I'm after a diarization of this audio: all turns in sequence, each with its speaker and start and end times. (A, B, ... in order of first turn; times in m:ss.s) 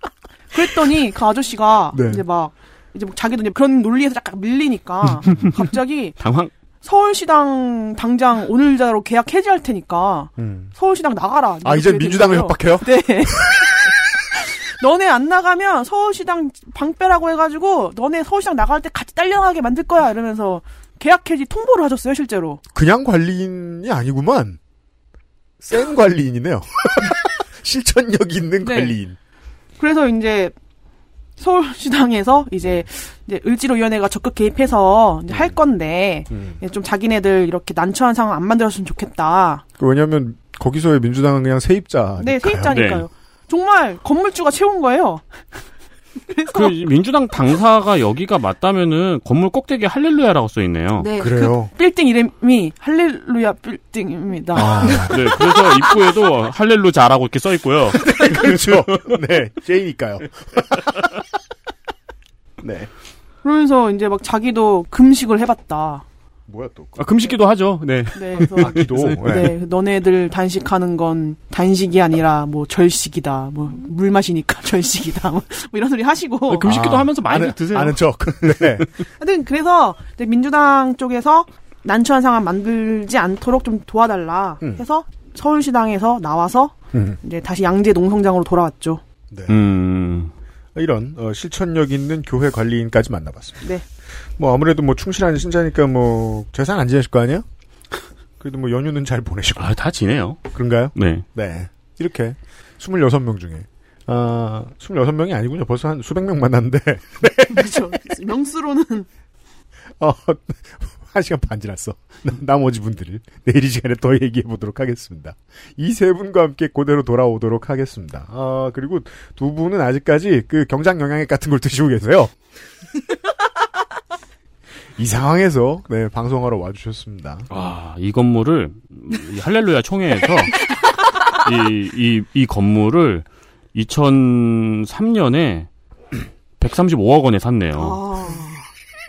0:00.5-0:06.2 A
0:01.9-0:02.2 B
0:06.2-0:06.5 C
0:06.8-0:22.6 A
0:10.4-0:10.7 B
0:11.6-0:13.9 B
0:22.7-0:24.6 B
0:25.6-0:29.2 B
0:28.6-0:29.0 A
0:29.8-0:30.5 A
0:31.4-0:39.6 A
0:35.3-0:35.6 B
0:36.3-0:36.6 B
0:39.8-0:42.8 B
0:42.2-0:45.2 A
0:42.7-0:43.0 C
0:46.3-0:46.7 A
0:46.5-0:51.1 C
0:51.1-0:55.0 A
0:51.2-0:51.7 B
0:54.5-0:55.3 B
0:54.8-0:59.2 C
0:58.0-1:01.2 B
1:02.6-1:02.9 B
1:03.4-1:06.0 A
1:06.5-1:07.3 B
1:07.0-1:09.2 C
1:08.1-1:16.7 A
1:08.5-1:09.6 B
1:16.5-1:18.8 C
1:16.6-1:18.9 B
1:19.2-1:29.0 A
1:26.9-1:27.2 B
1:29.3-1:29.6 B
1:29.5-1:30.3 C
1:30.7-1:33.7 B
1:34.4-1:37.4 B
1:38.4-1:39.8 B
1:39.6-1:40.4 C
1:40.5-1:48.0 B
1:40.9-1:41.2 C
1:47.4-1:49.1 A
1:50.0-2:02.3 B
2:05.0-2:07.5 B
2:07.5-2:10.6 C
2:11.3-2:15.7 C
2:16.6-2:18.0 C
2:17.8-2:18.6 A